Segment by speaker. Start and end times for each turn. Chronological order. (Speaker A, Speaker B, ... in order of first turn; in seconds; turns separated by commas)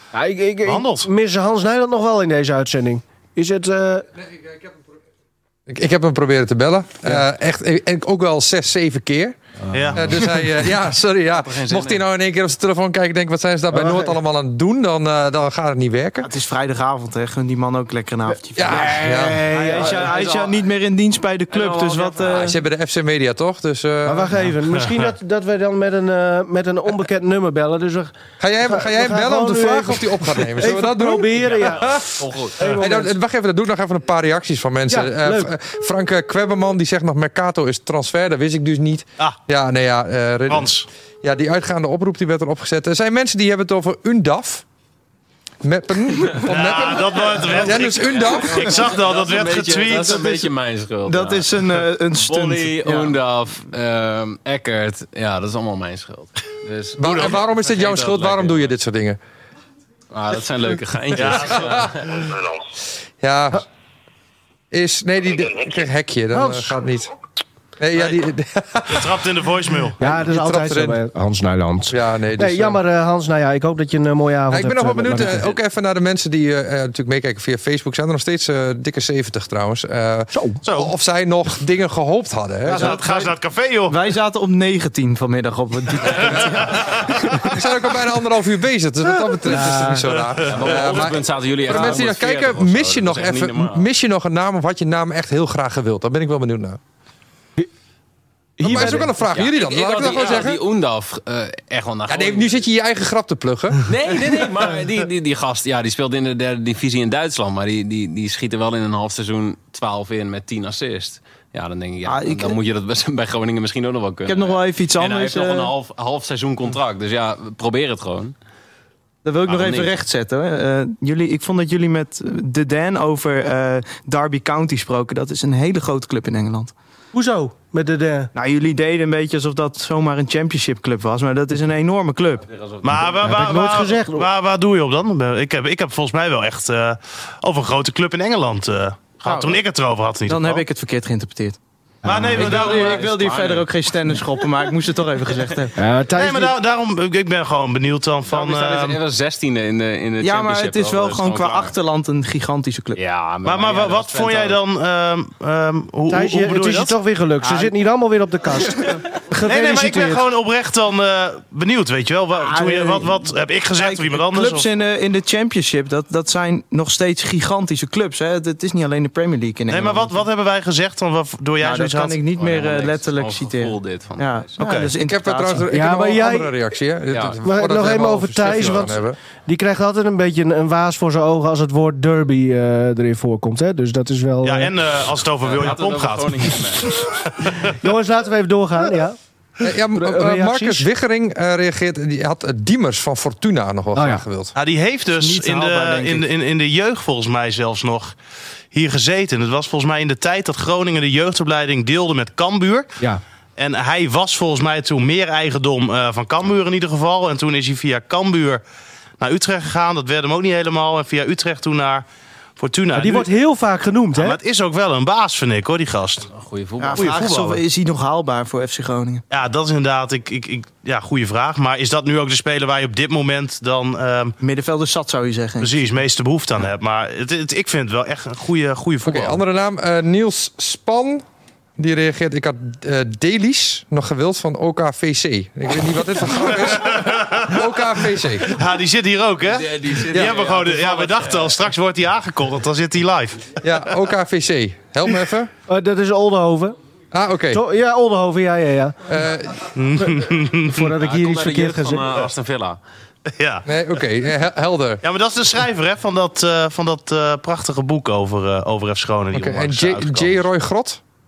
Speaker A: 0.1-4.1, Speaker B: 0.7-1.1, Speaker C: 4.2-4.8, Speaker C: 5.7-9.4, Speaker A: 9.7-10.1, Speaker B: 9.7-10.1, Speaker C: 9.9-16.3, Speaker D: 11.3-12.0, Speaker A: 13.7-14.2, Speaker E: 16.2-22.6, Speaker C: 18.6-20.0, Speaker D: 18.8-19.3, Speaker A: 19.6-19.9, Speaker D: 19.9-20.5, Speaker D: 21.5-22.5, Speaker C: 22.3-24.5, Speaker A: 24.1-28.1, Speaker B: 24.8-25.1, Speaker C: 28.4-44.6, Speaker A: 28.7-31.9, Speaker D: 31.4-32.8, Speaker A: 32.6-33.1, Speaker A: 34.9-35.5, Speaker B: 40.5-40.9, Speaker C: 45.6-48.7, Speaker B: 46.5-50.3, Speaker D: 47.6-51.6, Speaker E: 50.2-50.5, Speaker E: 51.0-53.2, Speaker D: 52.2-58.8, Speaker C: 57.0-59.2, Speaker B: 57.0-57.4, Speaker D: 60.1-62.4, Speaker B: 61.1-61.8, Speaker C: 61.4-61.9, Speaker C: 63.2-63.6, Speaker C: 64.7-67.1, Speaker A: 66.3-66.8, Speaker C: 67.8-69.3, Speaker B: 68.9-70.0, Speaker C: 69.9-71.0, Speaker A: 70.0-75.5, Speaker C: 71.9-72.8, Speaker C: 74.5-82.9, Speaker A: 80.3-80.6, Speaker B: 80.6-80.9, Speaker E: 82.7-86.8, Speaker B: 82.7-84.0, Speaker B: 86.6-87.3, Speaker C: 87.5-96.8, Speaker A: 89.5-90.0, Speaker D: 90.4-93.9, Speaker A: 98.6-99.3, Speaker C: 98.6-100.6, Speaker D: 98.8-102.7, Speaker C: 102.1-103.9, Speaker D: 103.8-118.3, Speaker E: 112.0-112.6, Speaker E: 114.3-115.8, Speaker E: 119.2-126.7, Speaker D: 119.5-119.9, Speaker A: 127.1-128.3, Speaker E: 128.3-132.5, Speaker D: 132.5-133.4, Speaker B: 132.8-140.6, Speaker A: 133.2-134.3, Speaker E: 139.2-139.6, Speaker E: 140.2-141.6, Speaker A: 142.0-142.5, Speaker B: 142.1-143.1, Speaker D: 142.1-143.7, Speaker E: 142.4-145.8, Speaker A: 145.8-146.5, Speaker B: 146.2-149.0, Speaker D: 148.3-151.7, Speaker E: 150.2-153.0, Speaker D: 152.9-154.6, Speaker B: 153.4-157.0, Speaker A: 156.1-160.2, Speaker D: 157.4-157.7, Speaker B: 159.5-164.7, Speaker E: 162.7-163.1, Speaker E: 163.8-170.2, Speaker B: 169.7-172.2, Speaker E: 171.6-175.7, Speaker D: 172.3-174.6, Speaker B: 174.6-174.9, Speaker C: 175.0-179.2, Speaker A: 175.7-176.5, Speaker D: 177.1-177.9, Speaker A: 177.4-184.7, Speaker D: 178.4-179.0, Speaker B: 184.4-186.6, Speaker D: 185.4-187.2, Speaker B: 187.4-187.7, Speaker A: 187.8-189.2, Speaker C: 189.6-194.6, Speaker A: 189.9-190.9, Speaker A: 193.9-194.2, Speaker B: 194.6-198.2, Speaker E: 195.1-196.3, Speaker B: 198.7-203.0, Speaker B: 203.6-208.6, Speaker B: 209.2-212.1, Speaker B: 212.6-213.3, Speaker A: 212.9-214.4, Speaker B: 214.2-216.3, Speaker D: 216.3-217.3, Speaker E: 216.8-219.2, Speaker B: 216.9-217.6, Speaker B: 219.3-224.4, Speaker E: 224.4-225.9, Speaker B: 225.6-229.4, Speaker C: 229.1-231.2, Speaker C: 231.8-238.6, Speaker B: 236.6-237.6, Speaker B: 238.5-243.9, Speaker D: 239.4-241.7, Speaker C: 243.6-245.5, Speaker A: 245.7-246.8, Speaker C: 247.1-247.6, Speaker A: 247.5-249.0, Speaker C: 249.1-249.8, Speaker B: 249.8-250.9, Speaker A: 250.7-252.3, Speaker D: 251.0-252.8, Speaker B: 253.3-254.0, Speaker C: 253.7-255.0, Speaker B: 255.0-260.4, Speaker C: 259.3-261.0